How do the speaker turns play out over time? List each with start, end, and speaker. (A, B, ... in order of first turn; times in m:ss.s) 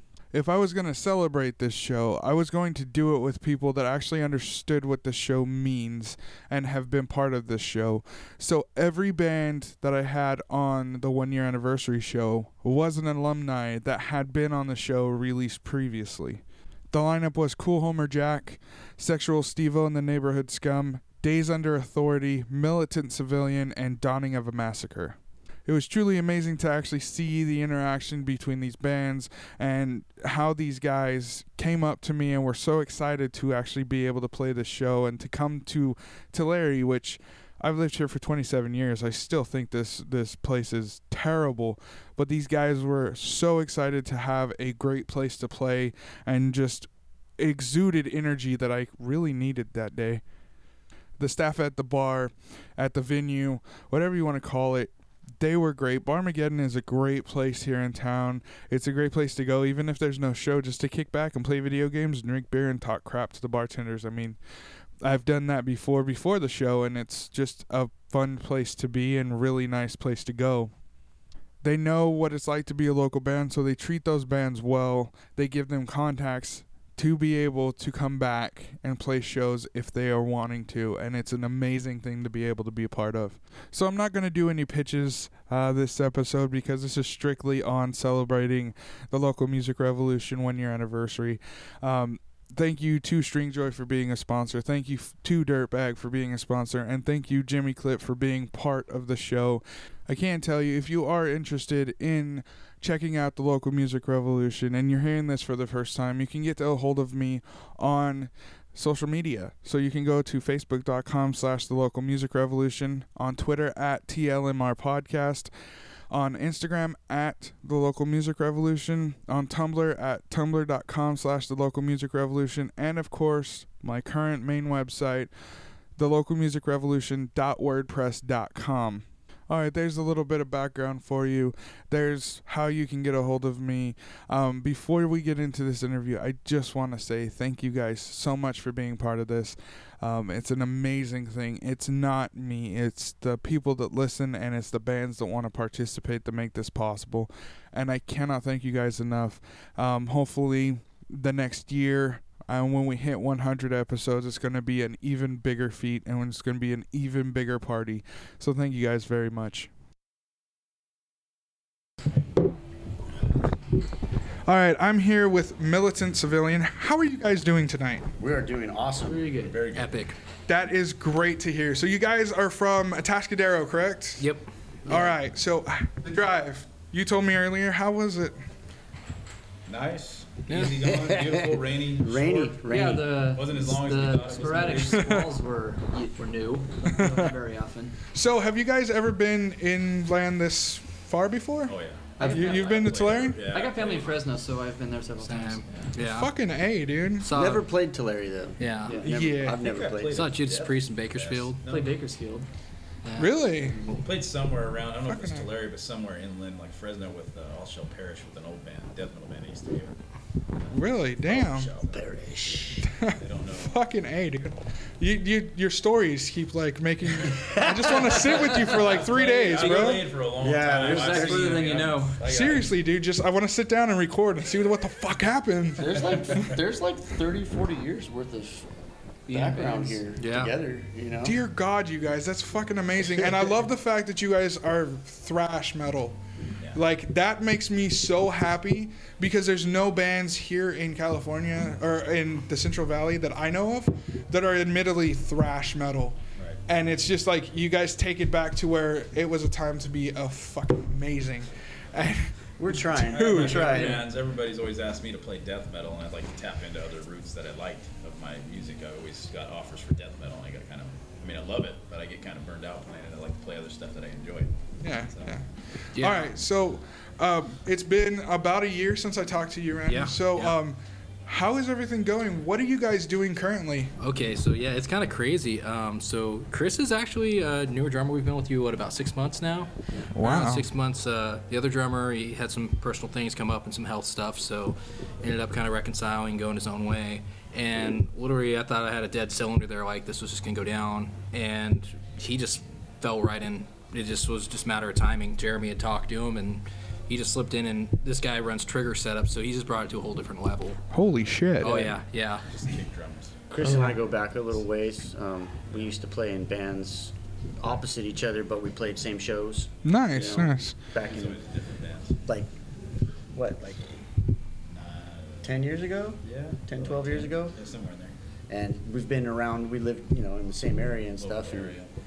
0:00.3-0:50.2 A
0:51.2-1:04.4 A
1:05.0-1:10.7 A
1:11.6-1:55.5 A
1:56.1-2:05.3 A
2:06.0-2:39.7 A
2:44.4-2:48.1 A
2:48.2-2:49.2 B
2:49.1-2:49.6 C
2:49.3-2:49.9 D
2:49.7-2:50.2 E
2:50.5-2:54.3 A
2:54.2-2:54.4 E
2:54.9-2:55.1 B
2:54.9-2:58.4 A
2:59.7-3:05.2 D
3:00.5-3:00.8 E
3:00.8-3:03.2 B
3:02.7-3:08.0 C
3:04.9-3:05.3 A
3:06.9-3:07.4 A
3:08.1-3:13.4 A
3:11.7-3:14.2 D
3:12.2-3:12.8 C
3:13.4-3:15.6 C
3:15.2-3:16.3 E
3:16.0-3:17.3 A
3:17.2-3:17.7 E
3:17.3-3:20.3 B
3:18.6-3:19.0 E
3:19.0-3:19.7 A
3:19.6-3:22.0 D
3:20.1-3:21.6 E
3:21.6-3:22.5 C
3:23.0-3:23.4 E
3:23.2-3:23.8 A
3:23.8-3:30.0 D
3:25.1-3:25.5 A
3:30.6-3:32.3 D
3:30.7-3:31.7 A
3:31.9-3:32.8 B
3:32.8-3:40.1 A
3:33.0-3:33.7 D
3:38.3-3:42.7 D
3:40.4-3:41.7 B
3:40.8-3:42.2 C
3:42.2-3:46.5 A
3:45.8-3:48.7 B
3:49.3-3:50.5 E
3:49.3-3:51.4 B
3:51.2-3:56.2 A
3:56.7-4:14.0 A
4:12.6-4:14.1 B
4:13.0-4:25.4 D
4:24.8-4:33.9 A
4:25.9-4:26.3 E
4:29.9-4:30.6 E
4:34.0-5:00.8 E
4:40.1-4:40.7 A
5:00.9-5:01.8 A
5:01.6-5:02.4 E
5:02.5-5:03.4 D
5:03.5-5:11.4 B
5:09.8-5:10.8 A
5:11.0-5:12.2 D
5:13.3-5:13.9 B
5:14.7-5:15.6 D
5:15.4-5:17.6 B
5:16.2-5:18.2 D
5:18.5-5:21.8 B
5:21.2-5:21.9 D